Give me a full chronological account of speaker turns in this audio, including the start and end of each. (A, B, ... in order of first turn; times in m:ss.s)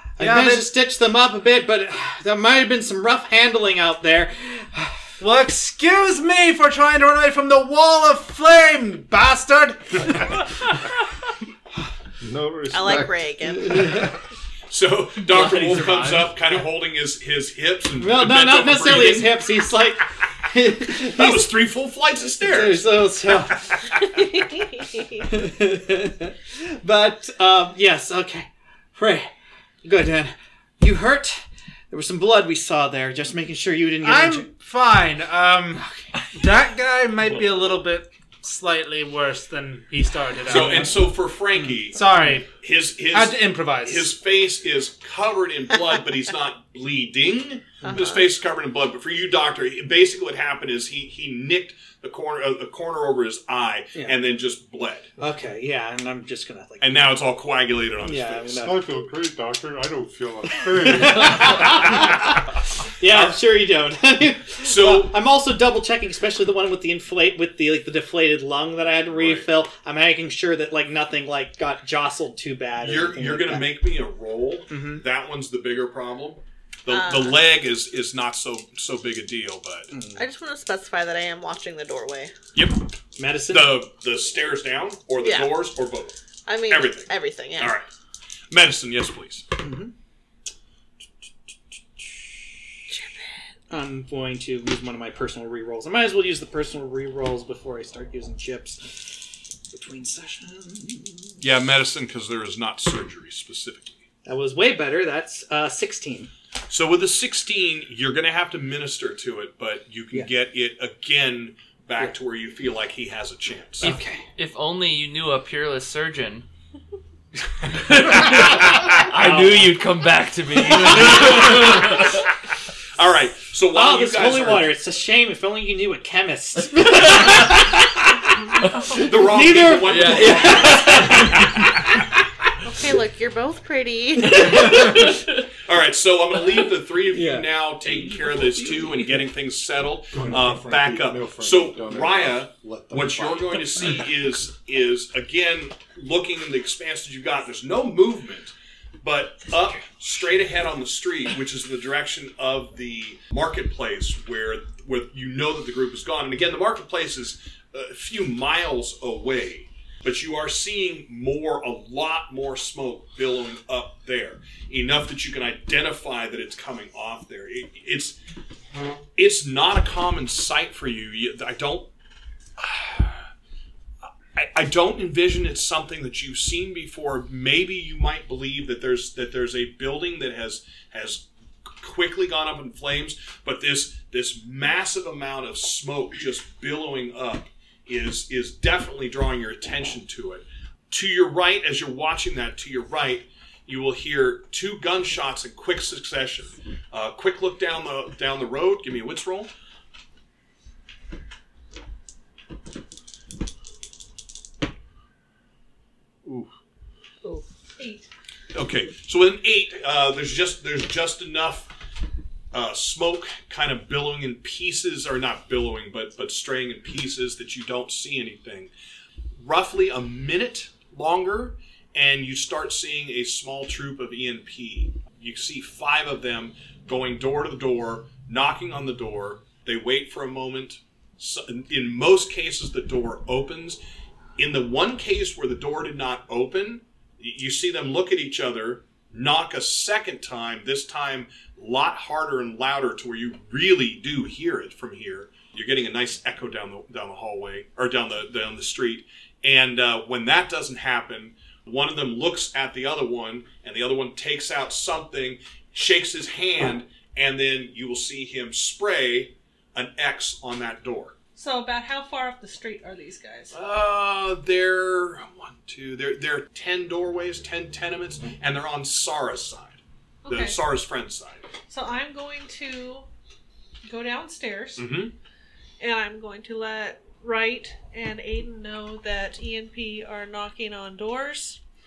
0:00.2-0:05.1 A
0:00.2-0:00.7 B
0:05.2-0:10.4 B
0:12.2-0:14.0 C
0:12.7-0:14.0 D
0:13.7-0:14.1 A
0:14.7-0:19.6 E
0:15.3-0:16.3 F
0:18.0-0:21.6 A
0:20.9-0:23.4 E
0:22.4-0:23.6 A
0:24.8-0:25.2 D
0:25.2-0:29.3 A
0:29.8-0:34.5 A
0:34.0-0:41.0 B
0:35.8-0:36.1 A
0:40.5-0:42.0 E
0:40.5-0:41.0 A
0:41.9-0:42.5 B
0:42.5-0:55.1 E
0:43.1-0:44.1 B
0:47.8-0:48.2 D
0:55.2-0:57.1 A
0:56.8-0:58.7 E
0:58.0-0:58.9 A
0:58.6-1:01.9 C
1:00.6-1:02.4 A
1:03.0-1:13.7 A
1:03.0-1:03.4 E
1:04.6-1:05.2 E
1:09.1-1:09.5 E
1:12.8-1:19.9 E
1:14.7-1:15.0 A
1:16.9-1:17.4 D
1:19.9-1:20.2 A
1:20.1-1:22.3 D
1:22.5-1:22.9 E
1:23.2-1:23.8 A
1:23.5-1:26.2 E
1:25.2-1:25.5 D
1:26.4-1:27.8 D
1:26.7-1:27.9 E
1:28.5-1:29.5 E
1:29.6-1:29.9 A
1:32.9-1:33.2 D
1:33.7-1:41.4 A
1:41.4-1:44.0 E
1:44.2-1:46.3 A
1:46.7-1:53.9 E
1:53.8-1:54.2 A
1:53.8-1:56.4 F
1:57.7-2:02.2 F
1:59.1-1:59.7 A
2:00.7-2:01.6 A
2:01.1-2:01.5 E
2:02.9-2:04.8 E
2:03.7-2:11.8 A
2:08.9-2:11.7 E
2:09.8-2:11.5 F
2:12.6-2:14.7 D
2:14.4-2:14.8 A
2:14.4-2:15.4 F
2:14.5-2:48.2 E
2:17.1-2:17.5 A
2:17.8-2:19.2 F
2:20.1-2:23.9 C
2:49.2-2:51.9 E
2:52.6-2:53.3 E
2:54.3-3:19.5 E
3:26.2-3:26.5 E
3:27.8-3:28.1 G
3:28.5-3:31.7 E
3:32.5-3:38.7 E
3:39.4-3:53.8 E
3:54.4-4:21.2 E
4:21.4-4:23.6 G
4:23.5-4:31.5 E
4:30.2-4:30.6 G
4:31.7-4:33.1 G
4:33.8-4:34.9 G
4:34.8-4:35.1 E
4:35.8-4:41.6 G